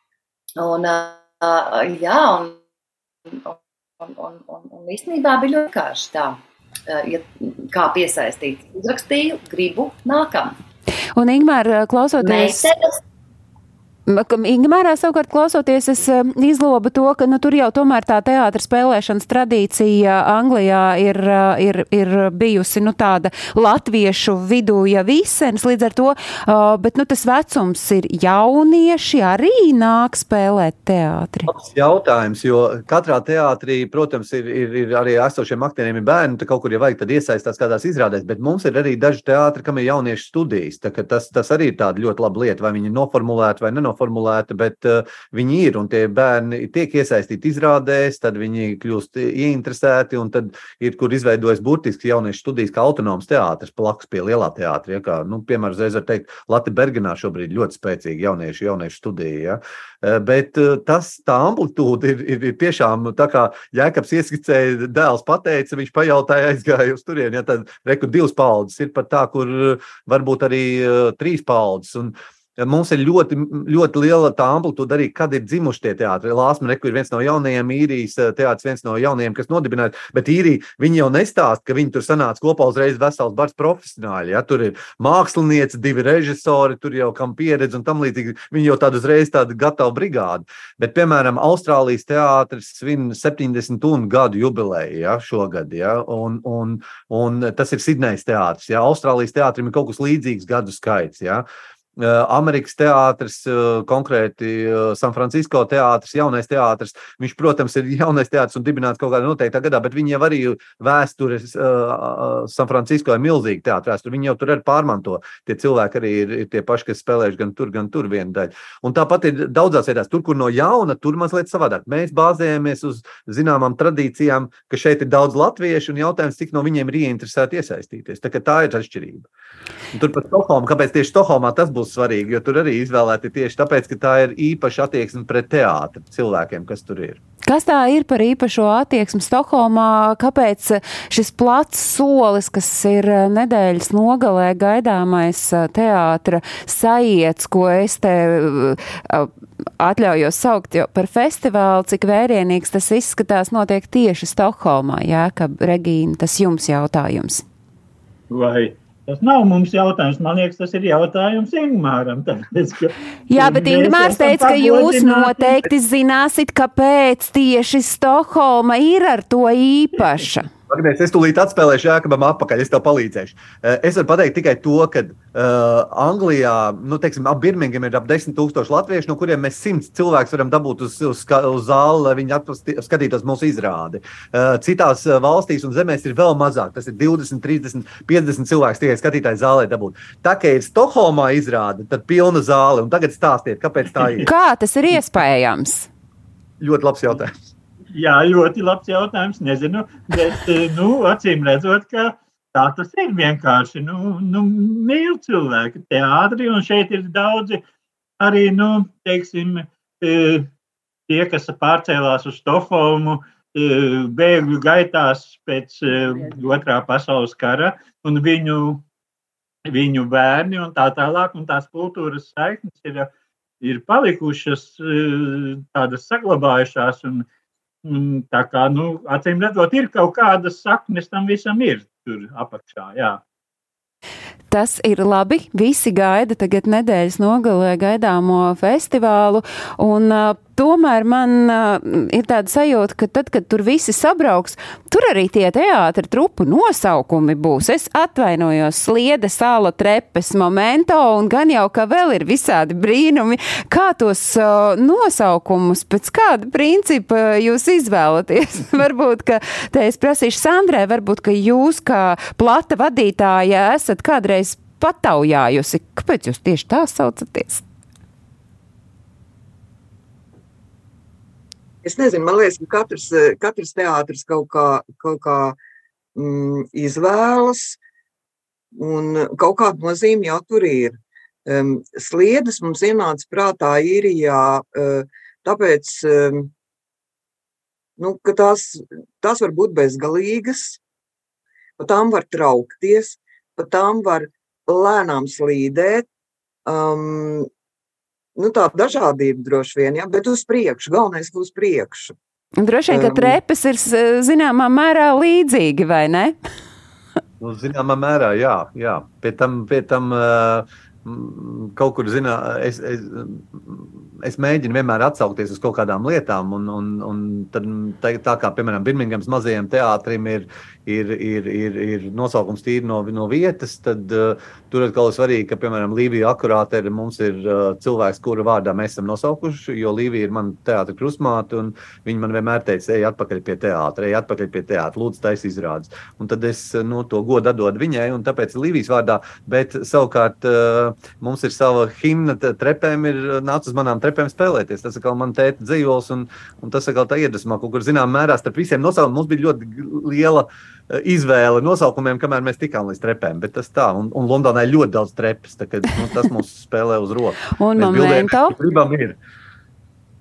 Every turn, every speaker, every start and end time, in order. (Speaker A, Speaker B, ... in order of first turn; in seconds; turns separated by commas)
Speaker A: 0.6-2.6, Speaker A: 3.3-10.6, Speaker B: 11.2-12.7, Speaker A: 12.2-13.0, Speaker B: 14.1-31.5, Speaker C: 31.5-101.5, Speaker C: 102.0-129.3, Speaker C: 129.9-137.2, Speaker B: 137.5-157.4, Speaker D: 158.3-165.6, Speaker B: 163.3-170.5, Speaker C: 170.7-194.3, Speaker B: 194.2-195.9, Speaker C: 196.6-197.4, Speaker D: 197.9-207.6, Speaker D: 208.2-210.5, Speaker D: 211.1-218.8, Speaker D: 219.7-227.3, Speaker D: 227.8-233.2, Speaker B: 234.5-267.6, Speaker E: 271.8-275.6, Speaker E: 276.1-277.8, Speaker E: 278.7-286.5, Speaker E: 288.0-290.8, Speaker E: 291.8-296.1, Speaker E: 296.7-297.5, Speaker E: 298.4-302.1, Speaker B: 302.6-306.4, Speaker E: 302.9-303.4, Speaker C: 307.4-359.2, Speaker B: 357.6-358.6